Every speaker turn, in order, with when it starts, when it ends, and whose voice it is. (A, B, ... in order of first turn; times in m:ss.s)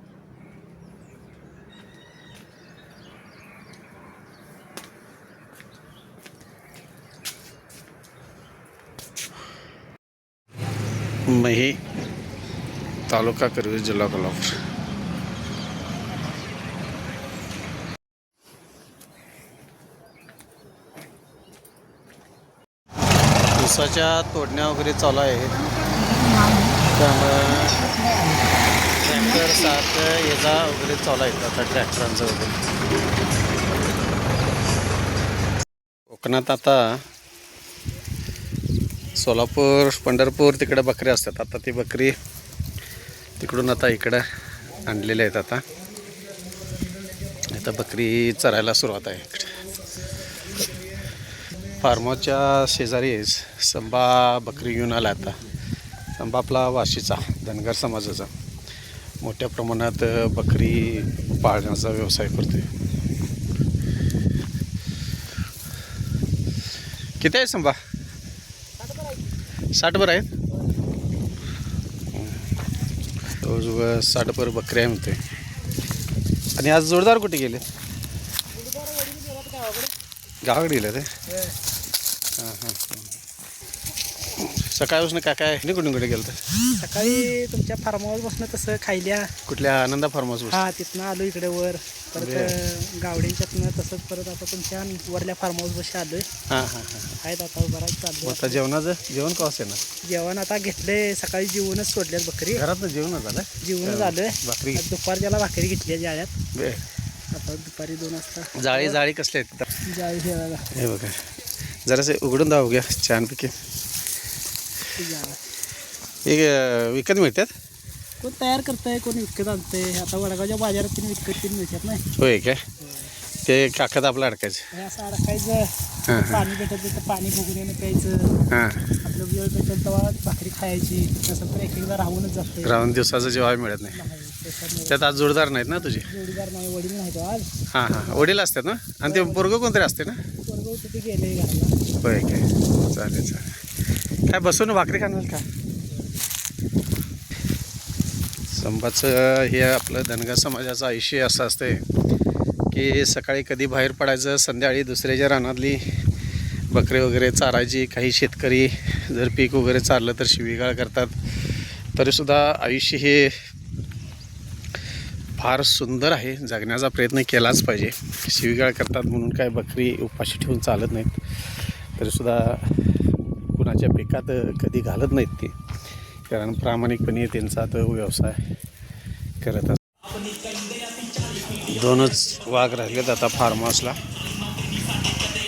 0:11.3-0:11.8 A
0:13.1-0:14.6 A
0:23.5-0:25.7 A
0:26.8-0:28.0 A
0:28.9-0:32.6 A
0:36.1-0:37.0 A
0:39.2-0:42.2 A
0:43.4-0:44.2 A
0:44.8-0:45.6 A
0:47.4-0:49.7 A
0:51.8-0:55.4 A
0:56.2-0:58.3 A
0:59.2-1:02.7 A
1:07.2-1:07.8 A
1:09.7-1:10.3 A
1:12.1-1:12.5 A
1:13.4-1:15.2 A
1:16.5-1:17.6 A
1:18.5-1:19.9 B
1:20.4-1:21.1 A
1:22.4-1:23.2 A
1:24.3-1:26.4 A
1:26.7-1:29.3 B
1:29.4-1:30.7 A
1:30.5-1:36.3 B
1:32.2-1:32.6 A
1:36.5-1:37.2 A
1:37.2-1:38.6 B
1:38.2-1:39.8 A
1:40.0-1:42.7 B
1:42.5-1:44.8 A
1:43.6-1:46.3 B
1:46.5-1:46.8 A
1:47.3-1:49.0 B
1:48.6-1:49.7 A
1:49.8-1:50.7 B
1:50.7-1:51.3 A
1:51.8-1:53.6 A
1:54.9-1:55.4 B
1:56.2-1:57.5 A
1:58.2-2:02.0 B
2:02.2-2:02.6 A
2:03.4-2:04.7 A
2:04.7-2:08.4 B
2:06.1-2:06.5 A
2:08.5-2:08.9 A
2:09.0-2:12.8 B
2:12.6-2:14.0 A
2:13.9-2:15.3 B
2:14.9-2:16.1 A
2:15.9-2:17.5 B
2:17.7-2:20.2 A
2:18.0-2:18.3 B
2:19.0-2:19.5 B
2:20.3-2:21.8 B
2:22.0-2:23.7 A
2:24.2-2:25.5 A
2:28.5-2:31.9 A
2:32.7-2:36.0 A
2:36.7-2:43.4 A
2:45.4-2:52.9 A
2:53.5-2:55.6 A
2:56.3-2:58.4 A
2:59.4-2:59.8 A
3:01.5-3:04.0 A